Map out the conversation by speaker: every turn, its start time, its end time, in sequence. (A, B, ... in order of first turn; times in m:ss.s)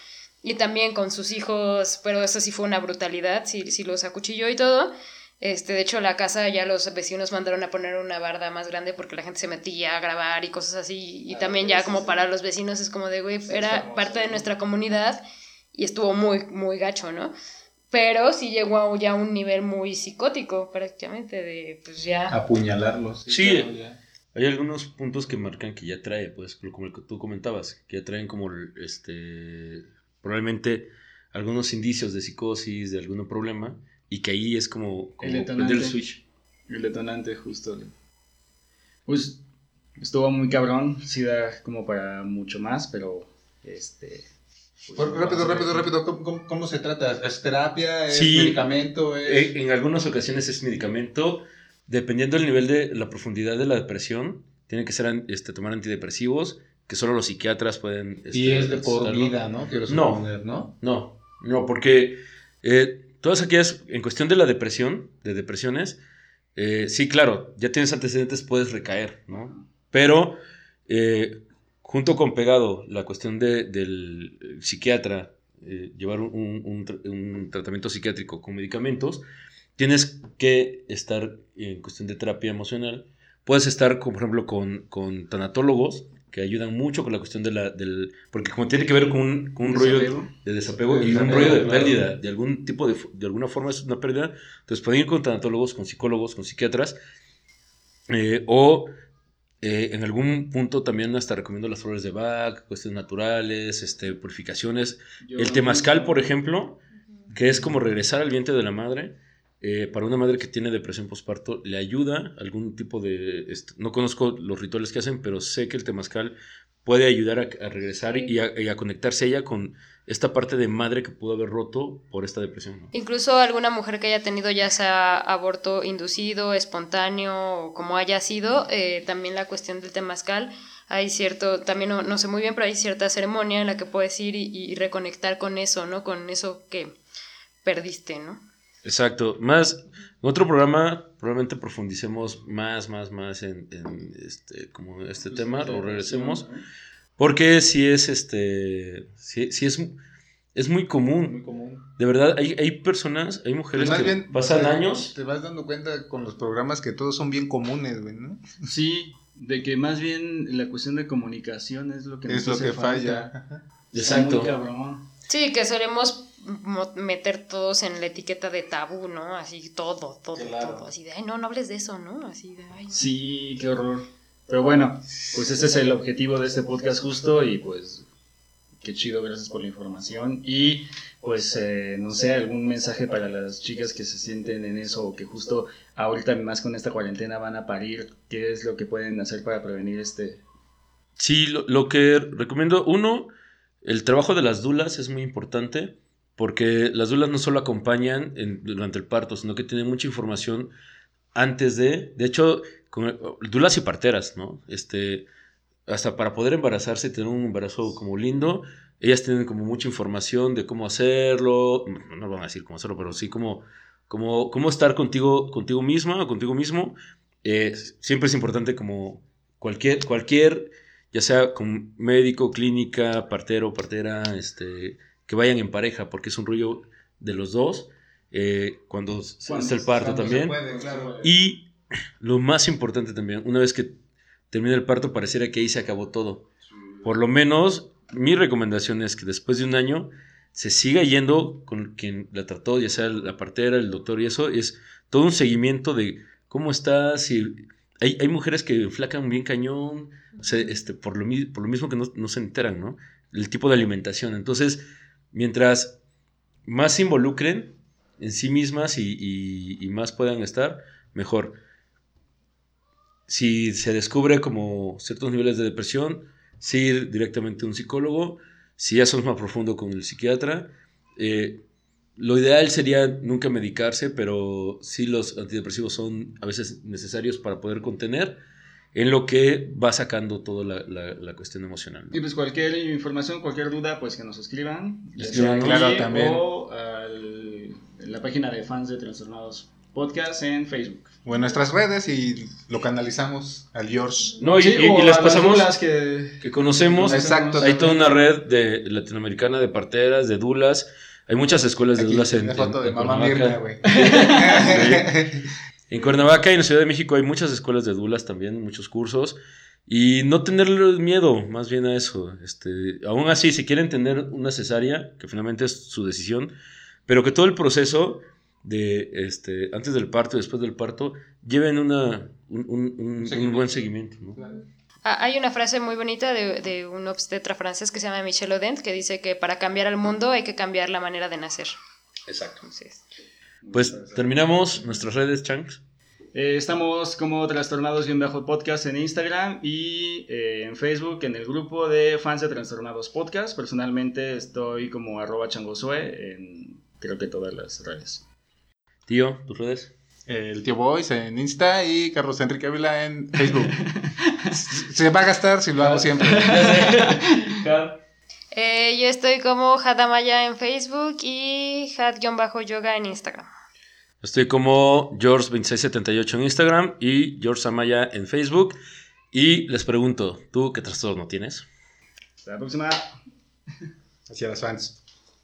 0:00.4-0:15.2 A
0:11.3-0:12.2 B
0:13.5-0:14.4 B
0:15.7-0:17.3 A
0:17.9-0:22.3 A
0:22.3-0:24.0 C
0:23.3-0:23.7 D
0:24.3-0:36.2 D
0:35.2-0:36.0 B
0:36.7-0:37.9 B
0:39.1-0:39.4 B
0:40.0-0:44.3 B
0:44.8-0:45.9 B
0:45.0-0:49.5 C
0:48.1-0:48.6 D
0:49.2-1:00.2 D
0:58.3-1:00.7 C
1:00.8-1:06.0 D
1:06.6-1:19.2 D
1:09.3-1:09.6 B
1:19.8-1:37.0 D
1:29.7-1:30.3 B
1:30.9-1:32.0 C
1:38.1-1:38.9 D
1:39.6-1:46.8 D
1:45.2-1:46.3 B
1:47.3-1:47.6 C
1:47.3-2:02.9 D
2:02.9-2:16.9 A
2:17.6-2:18.4 A
2:18.8-2:26.4 D
2:25.2-2:26.6 B
2:27.2-2:30.0 D
2:30.5-2:31.4 D
2:31.2-2:31.8 C
2:32.0-2:35.1 D
2:33.7-2:38.6 C
2:38.6-2:43.3 B
2:42.3-2:43.6 C
2:43.9-2:44.5 D
2:43.9-2:45.0 B
2:45.3-2:53.0 A
2:50.3-2:50.9 C
2:52.9-2:58.0 B
2:58.8-3:10.4 B
3:11.2-3:13.3 D
3:13.8-3:20.7 D
3:21.3-3:25.3 D
3:25.9-3:50.6 D
3:49.5-3:49.8 B
3:49.8-3:51.1 C
3:50.7-3:51.4 B
3:51.2-3:51.7 D
3:52.2-3:54.0 D
3:54.5-3:56.5 D
3:57.0-4:16.0 D
4:16.6-4:21.6 D
4:23.3-4:31.6 D
4:32.2-4:38.4 D
4:38.9-4:42.2 D
4:42.1-4:51.2 B
4:45.1-4:46.0 D
4:45.3-4:46.4 C
4:51.2-4:54.4 C
4:54.4-4:55.7 D
4:54.6-4:58.1 B
4:56.4-5:05.1 D
4:57.0-4:57.9 C
5:02.0-5:05.5 C
5:03.9-5:04.7 B
5:05.9-5:16.5 D
5:17.1-5:24.4 D
5:23.2-5:23.8 C
5:25.0-5:31.8 A
5:32.3-5:32.6 D
5:32.6-5:33.0 A
5:33.6-5:34.4 B
5:33.7-5:35.8 D
5:36.3-5:48.2 B
5:49.1-5:49.9 D
5:50.3-5:53.8 C
5:53.5-5:54.5 B
5:54.5-5:56.7 C
5:55.8-5:58.0 D
5:56.2-5:57.4 B
5:58.5-6:03.5 A
6:04.2-6:08.8 D
6:09.3-6:11.6 D
6:12.4-6:13.0 B
6:14.3-6:15.0 C